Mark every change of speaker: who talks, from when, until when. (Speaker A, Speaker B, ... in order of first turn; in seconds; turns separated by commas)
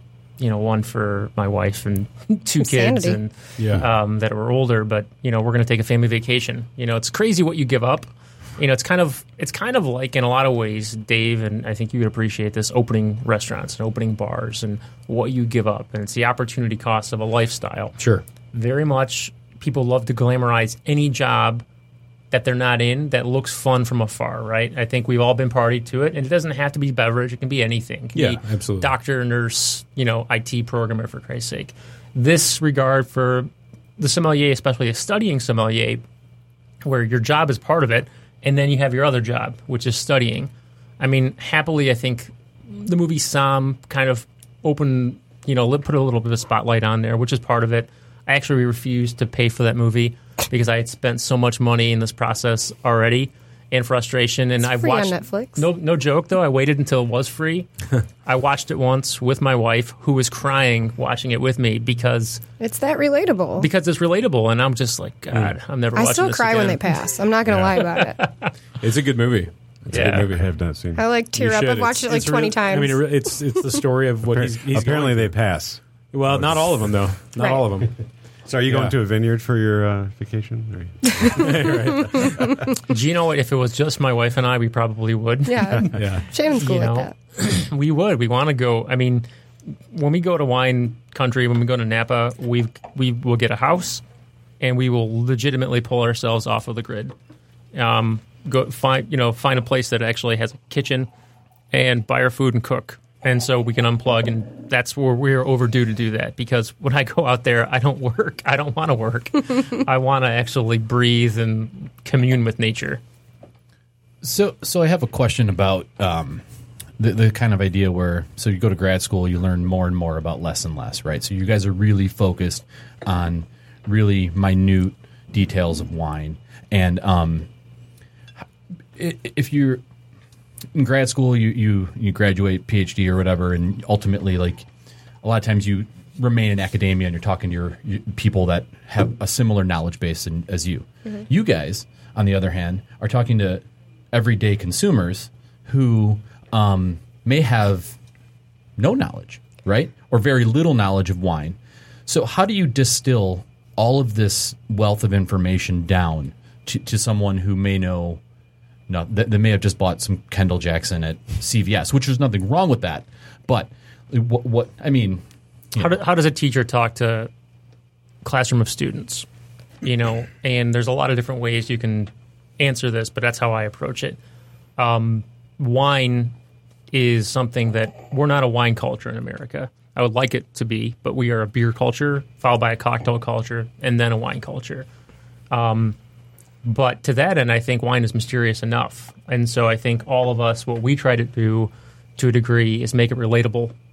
Speaker A: 0.4-17.9, Speaker B: 2.6-3.2, Speaker C: 3.6-3.8, Speaker C: 18.0-18.2, Speaker A: 18.5-21.6, Speaker A: 22.3-36.0, Speaker C: 28.1-28.9, Speaker A: 36.8-57.7, Speaker B: 54.6-55.6, Speaker A: 58.2-62.4, Speaker B: 62.6-63.7, Speaker A: 63.6-66.9, Speaker B: 65.9-68.2, Speaker C: 67.5-67.8, Speaker A: 67.9-68.5, Speaker C: 68.8-70.5, Speaker D: 69.9-71.0, Speaker A: 69.9-70.3, Speaker B: 70.9-73.1, Speaker C: 71.3-75.6, Speaker D: 74.3-77.2, Speaker C: 76.1-78.0, Speaker B: 77.4-77.6, Speaker D: 78.5-82.5, Speaker C: 78.7-79.0, Speaker B: 81.2-81.5, Speaker C: 81.3-82.3, Speaker A: 82.9-86.0, Speaker B: 85.5-87.1, Speaker C: 85.9-86.2, Speaker A: 86.5-89.2, Speaker A: 89.9-94.0, Speaker A: 94.6-97.1, Speaker A: 97.7-101.1, Speaker A: 101.7-113.0, Speaker E: 114.2-116.4, Speaker E: 117.0-127.5, Speaker E: 128.9-129.8, Speaker E: 130.7-134.7, Speaker E: 135.2-148.0, Speaker E: 148.8-158.2, Speaker E: 158.9-165.9, Speaker A: 165.8-167.3, Speaker A: 168.2-169.2, Speaker A: 169.8-174.2, Speaker A: 174.8-176.3, Speaker A: 176.9-184.8, Speaker A: 185.5-185.9, Speaker A: 186.6-193.7